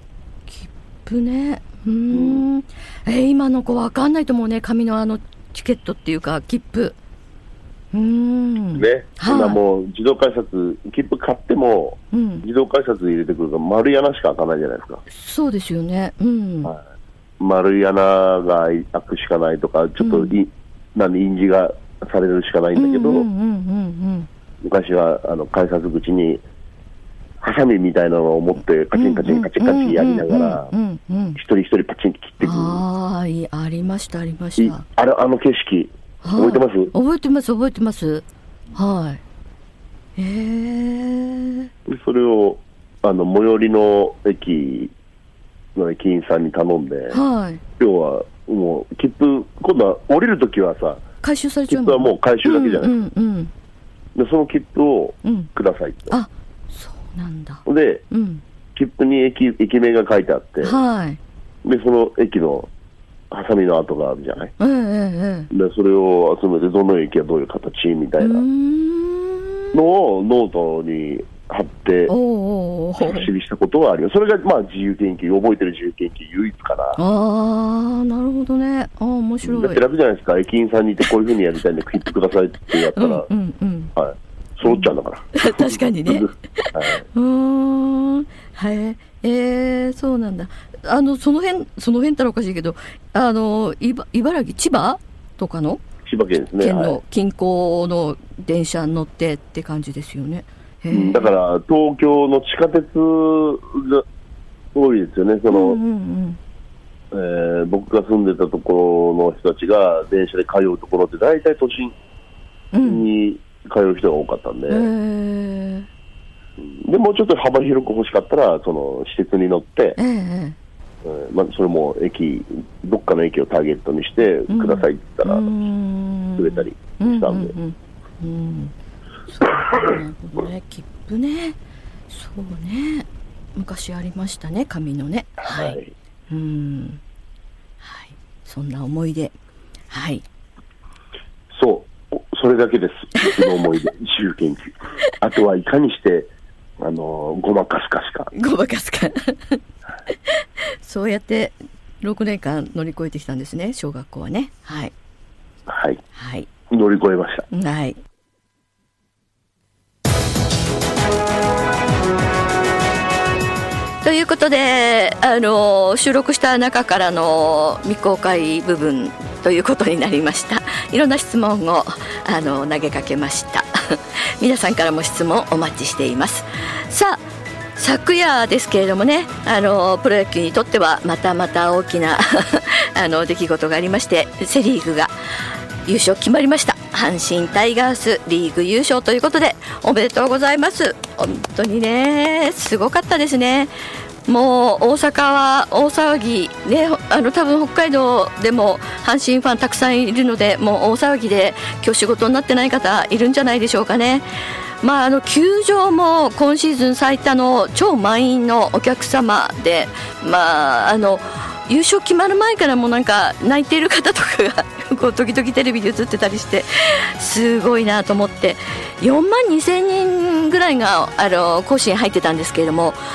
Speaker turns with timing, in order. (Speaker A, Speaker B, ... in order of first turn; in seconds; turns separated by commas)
Speaker A: 0.5-7.0, Speaker B: 2.1-2.5, Speaker A: 7.9-9.6, Speaker B: 8.8-15.0, Speaker A: 12.1-12.5, Speaker A: 15.1-16.7, Speaker B: 17.4-23.3, Speaker A: 20.0-20.4, Speaker A: 22.8-24.3, Speaker B: 24.6-26.4, Speaker B: 27.4-30.7, Speaker A: 28.9-31.4, Speaker B: 31.4-32.8, Speaker A: 32.4-34.9, Speaker B: 34.6-36.9, Speaker A: 36.2-39.2, Speaker A: 40.2-41.7, Speaker B: 41.9-44.9, Speaker B: 45.8-47.2, Speaker A: 47.1-47.6, Speaker B: 47.8-51.0, Speaker A: 51.2-53.5, Speaker B: 51.7-53.0, Speaker B: 54.1-56.2, Speaker A: 55.2-55.5, Speaker A: 56.1-58.4, Speaker B: 57.6-58.0, Speaker B: 58.8-60.8, Speaker A: 60.6-61.2, Speaker B: 61.6-62.7, Speaker B: 63.3-64.5, Speaker A: 64.6-65.5, Speaker B: 65.5-68.5, Speaker A: 68.2-69.8, Speaker B: 69.7-72.2, Speaker A: 72.1-73.3, Speaker B: 73.0-77.0, Speaker A: 77.0-79.8, Speaker B: 79.4-83.3, Speaker A: 82.9-83.9, Speaker B: 84.0-87.0, Speaker A: 84.6-95.8, Speaker B: 96.0-97.0, Speaker A: 96.6-101.4, Speaker B: 100.9-104.0, Speaker B: 104.7-105.8, Speaker A: 105.5-106.4, Speaker B: 107.1-112.0, Speaker A: 112.7-113.1, Speaker B: 112.8-114.9, Speaker A: 114.7-115.9, Speaker B: 116.6-120.0, Speaker A: 120.0-120.6, Speaker B: 121.0-125.5, Speaker A: 124.5-128.7, Speaker B: 126.4-127.5, Speaker A: 129.3-131.6, Speaker A: 132.1-135.8, Speaker B: 135.4-135.9, Speaker A: 136.3-137.0, Speaker A: 137.8-139.3, Speaker A: 139.9-140.2, Speaker B: 141.5-148.3, Speaker A: 143.2-143.5, Speaker A: 148.3-149.6, Speaker A: 150.3-154.9, Speaker B: 155.7-156.0, Speaker A: 156.2-156.5, Speaker B: 156.7-157.5, Speaker A: 157.5-158.0, Speaker A: 164.0-177.2, Speaker A: 177.8-185.1, Speaker A: 185.8-193.7, Speaker A: 194.3-204.3, Speaker A: 204.8-223.0